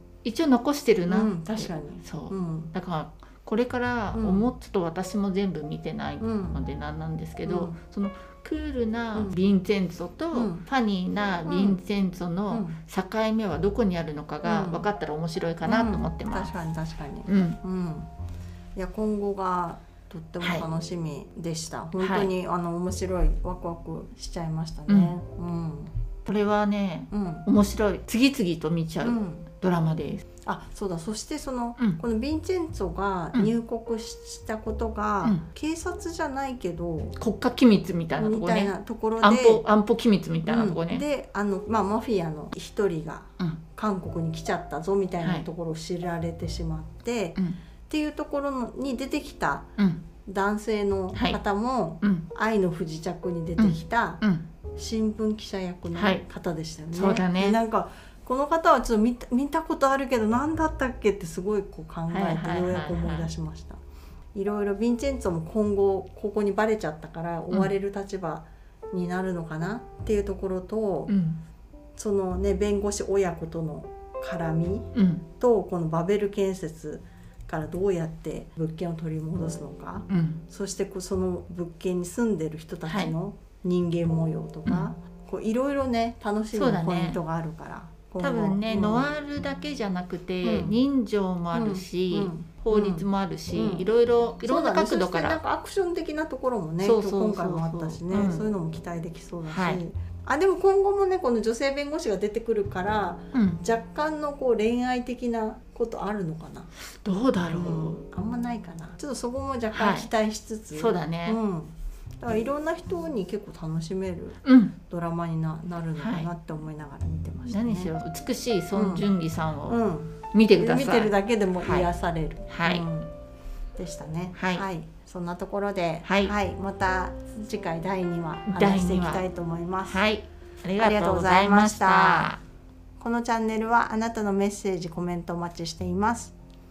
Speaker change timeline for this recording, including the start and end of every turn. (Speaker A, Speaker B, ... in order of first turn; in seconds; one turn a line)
Speaker A: 0.2-16.5
Speaker B: 1.1-2.7
Speaker B: 4.1-4.5
Speaker B: 6.2-6.6
Speaker B: 7.5-7.8
Speaker B: 10.3-10.6
Speaker B: 11.5-11.8
Speaker B: 12.5-12.8
Speaker B: 14.4-14.9
Speaker B: 15.7-18.1
Speaker A: 17.3-17.6
Speaker B: 18.8-25.9
Speaker A: 22.0-22.3
Speaker A: 24.9-25.1
Speaker A: 26.2-30.2
Speaker B: 27.1-27.5
Speaker B: 29.0-29.5
Speaker B: 30.4-37.1
Speaker A: 37.2-41.0
Speaker B: 38.2-39.6
Speaker B: 40.5-49.7
Speaker A: 49.8-50.0
Speaker B: 50.2-54.2
Speaker A: 51.1-51.4
Speaker A: 53.6-54.5
Speaker B: 54.8-63.8
Speaker A: 55.9-56.2
Speaker A: 56.9-57.6
Speaker A: 62.1-63.3
Speaker B: 64.3-71.1
Speaker A: 71.1-71.4
Speaker B: 72.0-89.1
Speaker A: 74.9-75.2
Speaker A: 80.1-80.4
Speaker A: 82.9-83.1
Speaker A: 86.5-87.2
Speaker A: 88.2-95.4
Speaker B: 90.4-90.8
Speaker B: 91.5-93.9
Speaker B: 94.4-106.7
Speaker A: 96.8-98.4
Speaker A: 99.5-99.8
Speaker A: 103.3-103.6
Speaker A: 106.9-108.0
Speaker B: 107.5-117.9
Speaker A: 109.7-110.1
Speaker A: 110.8-111.4
Speaker A: 114.5-114.8
Speaker A: 116.0-116.3
Speaker A: 117.5-119.8
Speaker B: 118.7-119.1
Speaker B: 119.7-123.1
Speaker A: 120.3-121.9
Speaker A: 122.5-122.9
Speaker B: 123.8-130.1
Speaker A: 124.4-124.6
Speaker A: 126.0-126.3
Speaker A: 128.5-129.2
Speaker A: 129.9-132.4
Speaker B: 130.8-132.3
Speaker B: 133.0-136.3